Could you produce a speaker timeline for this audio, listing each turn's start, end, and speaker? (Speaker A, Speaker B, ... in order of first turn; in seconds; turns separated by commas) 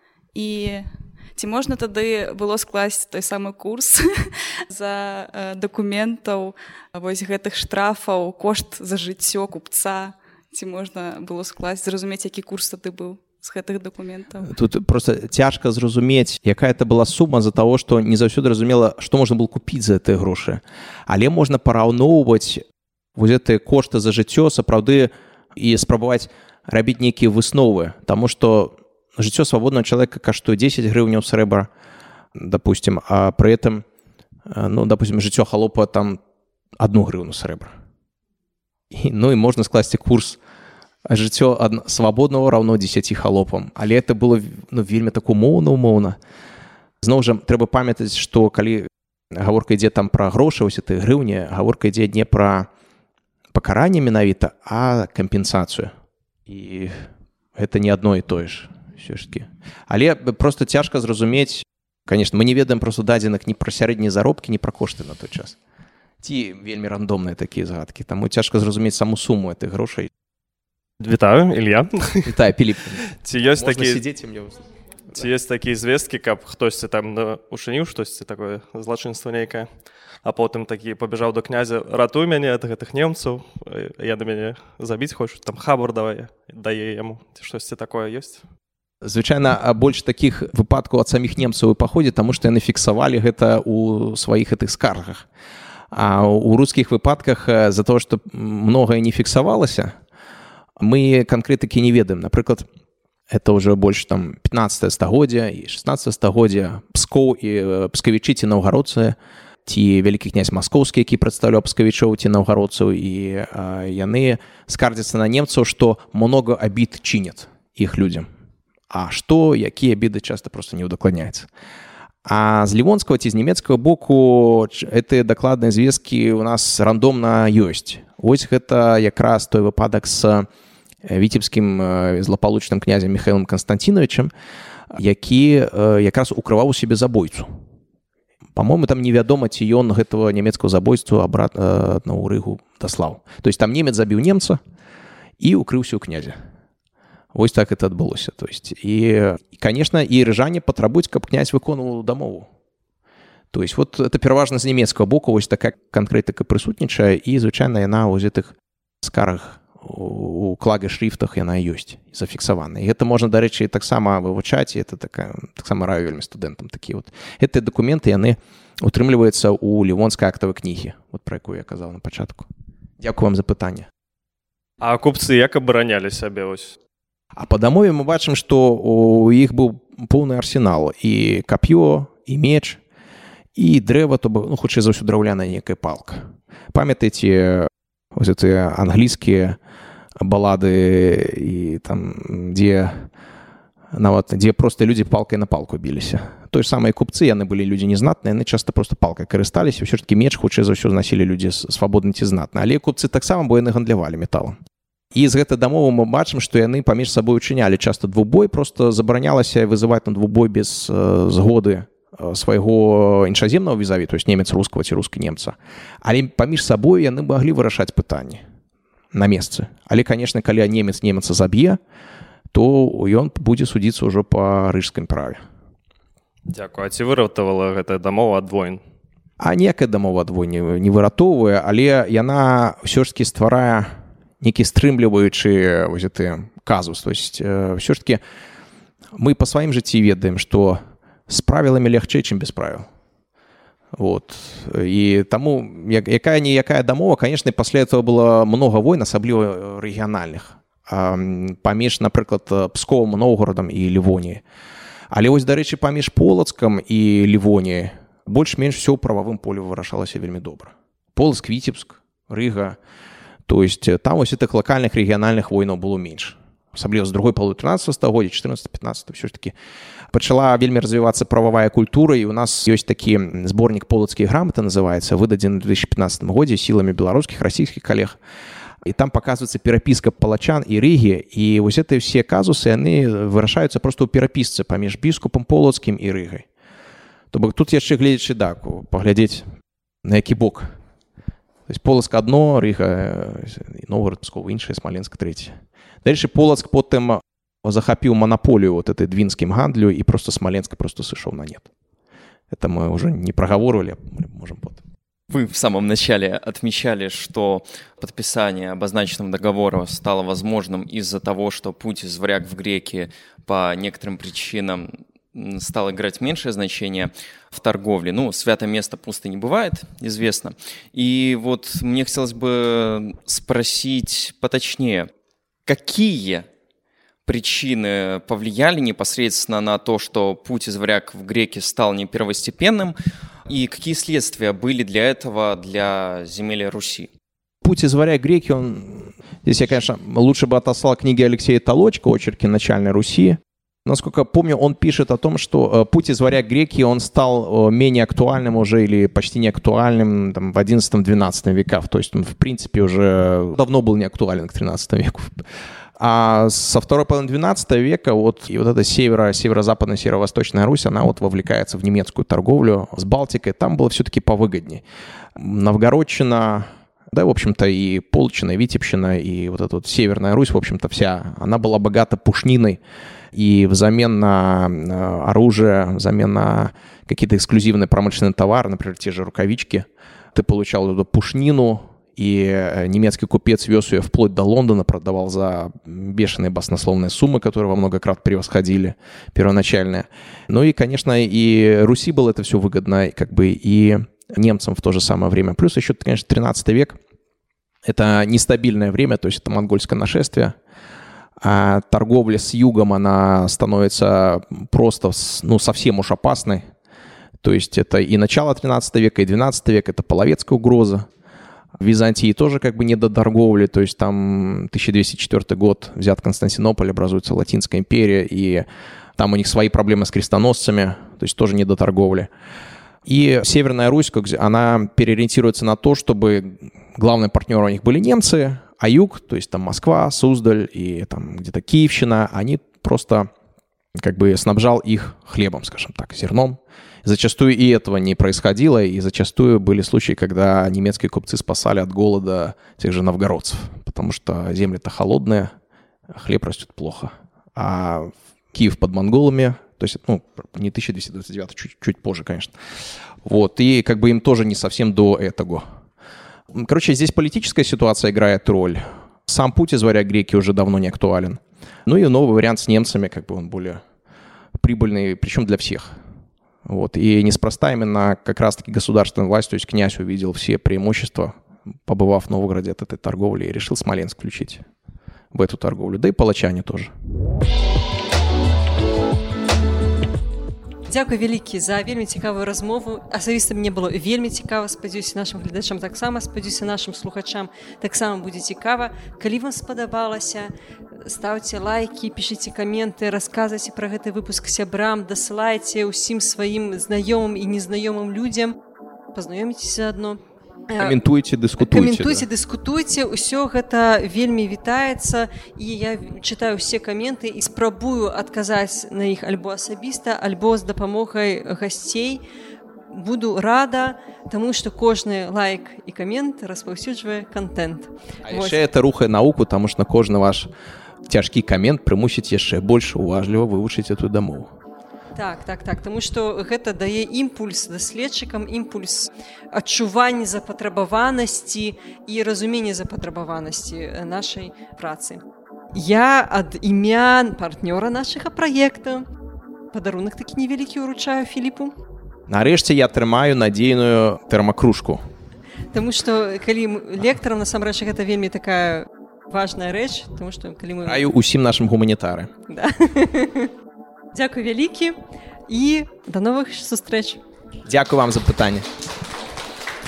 Speaker A: 0.3-14.5, Speaker B: 14.5-22.6, Speaker B: 23.2-31.7, Speaker B: 32.4-33.8, Speaker B: 34.5-36.2, Speaker B: 36.8-37.8, Speaker B: 38.9-40.4, Speaker B: 41.0-46.2, Speaker B: 47.0-52.7, Speaker B: 53.5-55.9, Speaker B: 56.5-65.6, Speaker B: 66.2-70.1, Speaker C: 71.0-72.3, Speaker B: 72.2-74.6, Speaker C: 73.2-74.0, Speaker C: 75.1-79.7, Speaker C: 80.2-88.4, Speaker B: 89.0-95.3, Speaker B: 95.9-100.0, Speaker B: 100.8-102.7, Speaker B: 103.3-118.3, Speaker B: 118.9-121.5, Speaker B: 122.2-130.5, Speaker B: 131.0-134.3, Speaker B: 134.9-137.5, Speaker B: 138.6-144.6, Speaker B: 145.4-146.4, Speaker B: 147.3-152.5, Speaker B: 153.5-172.5, Speaker B: 173.0-173.9, Speaker C: 174.8-176.8, Speaker B: 177.3-182.8, Speaker B: 183.6-186.2, Speaker B: 186.7-189.6, Speaker B: 190.2-193.1, Speaker B: 193.9-204.6, Speaker B: 205.1-218.4, Speaker B: 219.1-221.8, Speaker B: 222.5-225.4, Speaker C: 226.5-228.8, Speaker B: 229.4-238.2, Speaker B: 239.2-242.9, Speaker B: 243.9-254.4, Speaker B: 255.1-262.8, Speaker B: 263.5-269.6, Speaker B: 270.1-278.2, Speaker B: 278.8-286.5, Speaker B: 287.3-289.4, Speaker B: 290.0-290.8, Speaker B: 291.7-301.7, Speaker B: 302.5-304.8, Speaker D: 305.3-325.1, Speaker D: 325.7-326.5, Speaker D: 327.2-332.9, Speaker D: 333.5-337.1, Speaker B: 337.6-355.4, Speaker B: 356.0-364.8, Speaker B: 365.4-372.8, Speaker B: 373.3-397.0, Speaker B: 397.9-400.6, Speaker B: 401.4-406.6, Speaker B: 407.4-411.1, Speaker B: 411.8-418.7, Speaker B: 419.2-422.3, Speaker B: 423.1-433.3, Speaker B: 434.0-445.5, Speaker B: 446.1-452.6, Speaker B: 453.2-455.6, Speaker B: 456.5-463.8, Speaker B: 464.6-465.9, Speaker B: 466.6-471.3, Speaker B: 471.9-474.6, Speaker B: 475.3-476.9, Speaker E: 480.9-498.6, Speaker E: 499.1-500.2, Speaker E: 500.7-501.0, Speaker B: 500.8-502.3, Speaker E: 501.6-512.2, Speaker E: 512.9-518.6, Speaker B: 518.2-520.5, Speaker B: 521.1-524.5, Speaker E: 525.1-535.2, Speaker E: 535.7-539.1, Speaker E: 539.7-541.7, Speaker B: 542.3-545.0, Speaker E: 545.7-551.1, Speaker B: 550.9-552.3, Speaker E: 552.5-553.5, Speaker E: 554.1-557.2, Speaker B: 557.7-558.7